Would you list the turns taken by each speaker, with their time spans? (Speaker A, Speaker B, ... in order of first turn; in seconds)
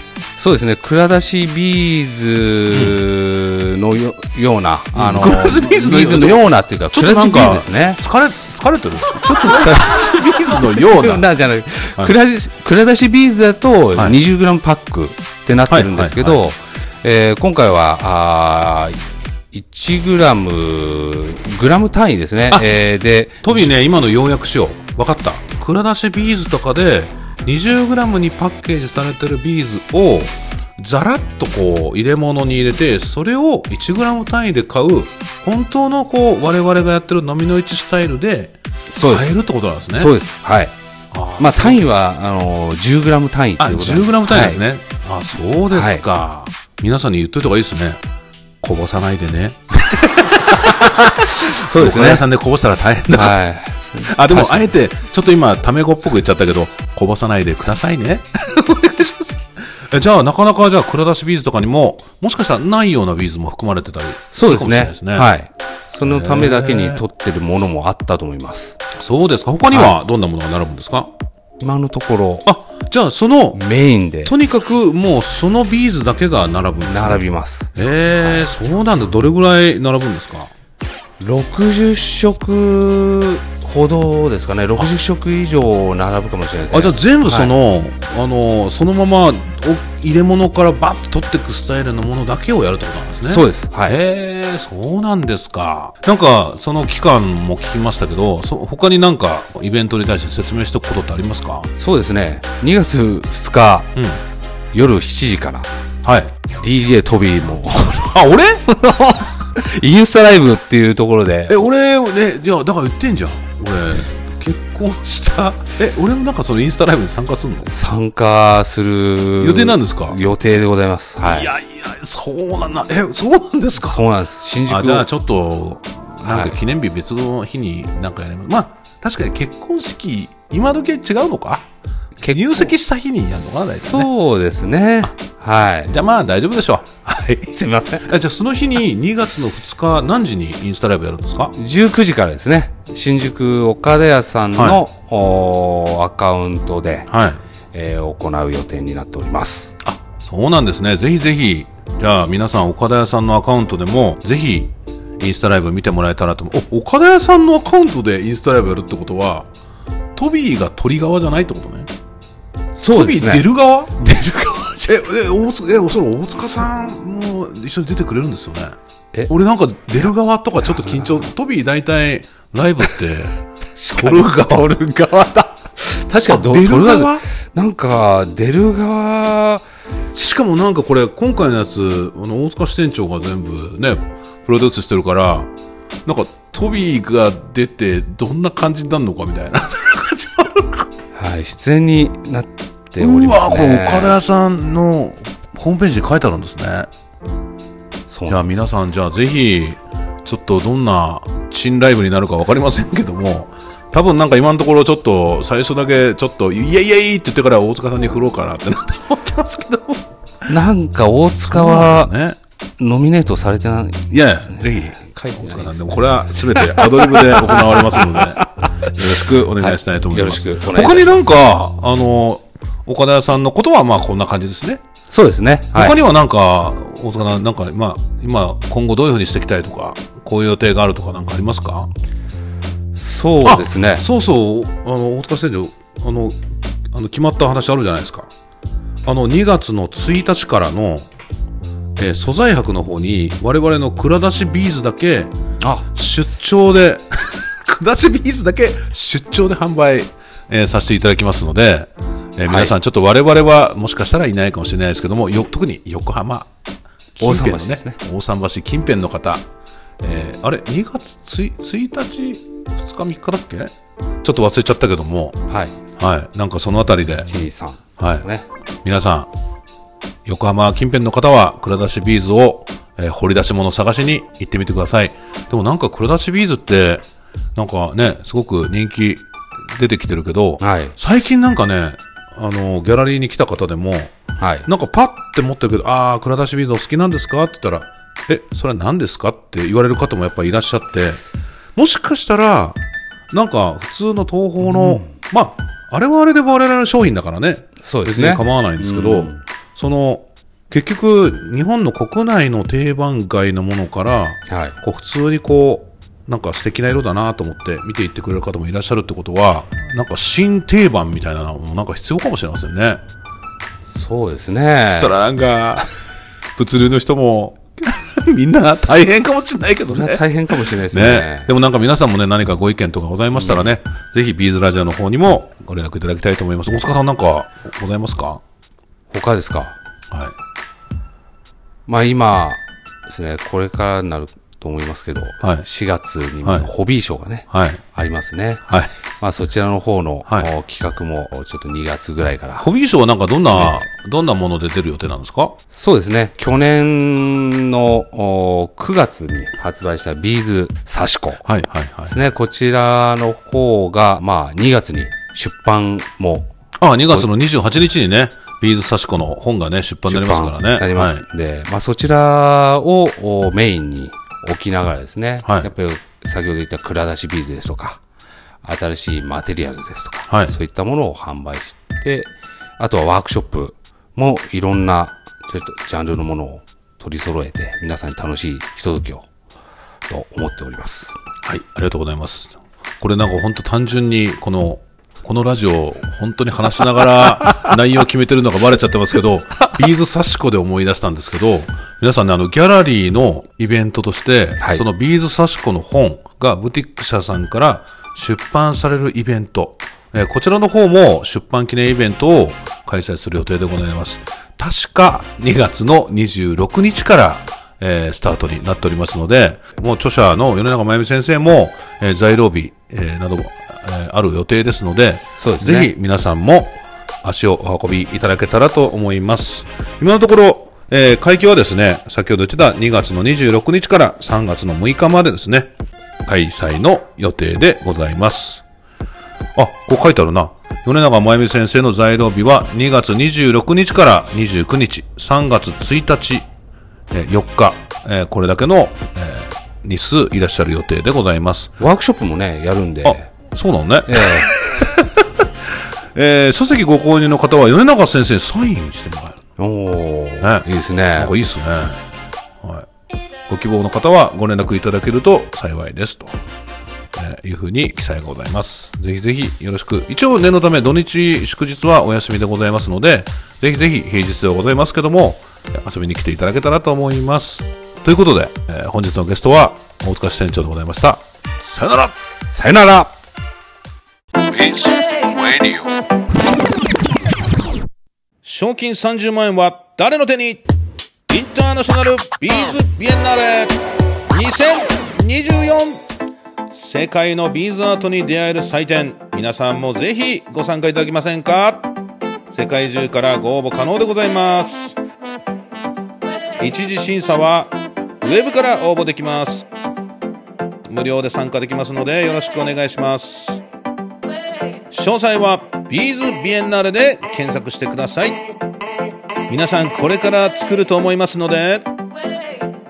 Speaker A: 0.4-8.0, 9.2-23.7, 38.9-39.4, 39.9-40.7, 41.4-44.6, 45.7-46.0, 51.1-52.3, 53.1-54.7, 64.3-68.8, 69.7-70.0, 71.6-72.5, 73.5-74.3, 76.9-77.7, 81.2-87.5, 93.2-94.0, 101.8-103.9, 104.7-105.7, 106.6-108.2, 108.7-111.6, 117.7-121.5, 123.8-125.1, 126.2-126.6, 132.2-132.7, 133.3-136.0, 137.5-138.1, 141.6-147.1, 147.7-149.8, 162.8-163.5, 164.0-165.0, 170.7-171.3, 173.8-179.6, 191.2-194.2, 198.1-198.6, 210.5-212.1, 212.8-218.5, 219.2-221.3, 225.1-226.0, 232.9-234.1, 252.5-252.8, 257.2-258.0, 265.5-265.8, 267.3-268.4, 280.6-280.9, 284.4-284.7, 294.7-295.1, 297.8-299.4, 304.5-304.8, 313.8-315.1, 319.7-321.5, 323.3-323.7, 329.1-329.8, 331.9-338.6, 339.2-342.7, 343.4-343.9, 345.7-351.4, 352.1-356.5, 360.1-368.0, 368.6-379.3, 380.1-381.2, 415.4-415.9, 441.8-443.3, 444.1-444.5, 449.6-451.4, 472.5-473.1
Speaker B: 2.7-3.0, 4.9-11.3, 15.7-16.4, 23.4-40.1, 41.1-41.9, 43.6-48.0, 48.6-53.4, 54.1-65.3, 66.0-67.0, 68.9-71.1, 72.4-73.6, 74.2-77.2, 77.8-80.5, 86.7-101.7, 104.0-104.2, 106.0-106.3, 108.0-108.8, 111.5-117.7, 119.4-120.2, 121.2-124.0, 124.7-131.7, 132.2-134.1, 135.9-141.5, 144.5-144.8, 147.1-147.4, 149.8-159.5, 160.2-161.9, 162.9-164.0, 164.9-168.8, 169.3-173.4, 173.9-174.7, 176.3-177.3, 180.1-185.5, 186.1-190.9, 193.0-196.9, 198.3-210.5, 211.5-212.4, 214.1-224.8, 225.7-231.9, 233.4-236.4, 236.9-238.3, 239.1-241.1, 242.0-245.3, 245.9-256.5, 257.2-259.4, 260.0-263.7, 264.2-265.4, 266.0-267.3, 268.0-268.3, 268.8-269.3, 270.3-277.0, 277.6-284.1, 284.7-291.2, 291.8-292.8, 293.3-313.0, 314.9-315.9, 316.6-328.4, 336.4-336.7, 337.5-337.8, 338.7-339.0, 342.6-345.6, 351.4-352.1, 356.8-361.2, 365.4-365.7, 370.3-370.6, 381.4-425.7, 426.2-428.6, 429.6-436.5, 437.1-441.7, 443.0-445.4, 446.1-449.4, 450.4-452.0, 452.6-452.9, 453.5-456.4, 457.2-472.1, 474.4-475.9, 478.4-480.6, 481.3-483.8, 484.3-486.0, 486.7-491.9, 492.5-495.0, 496.6-499.7, 500.9-503.6, 504.9-508.4, 509.5-511.9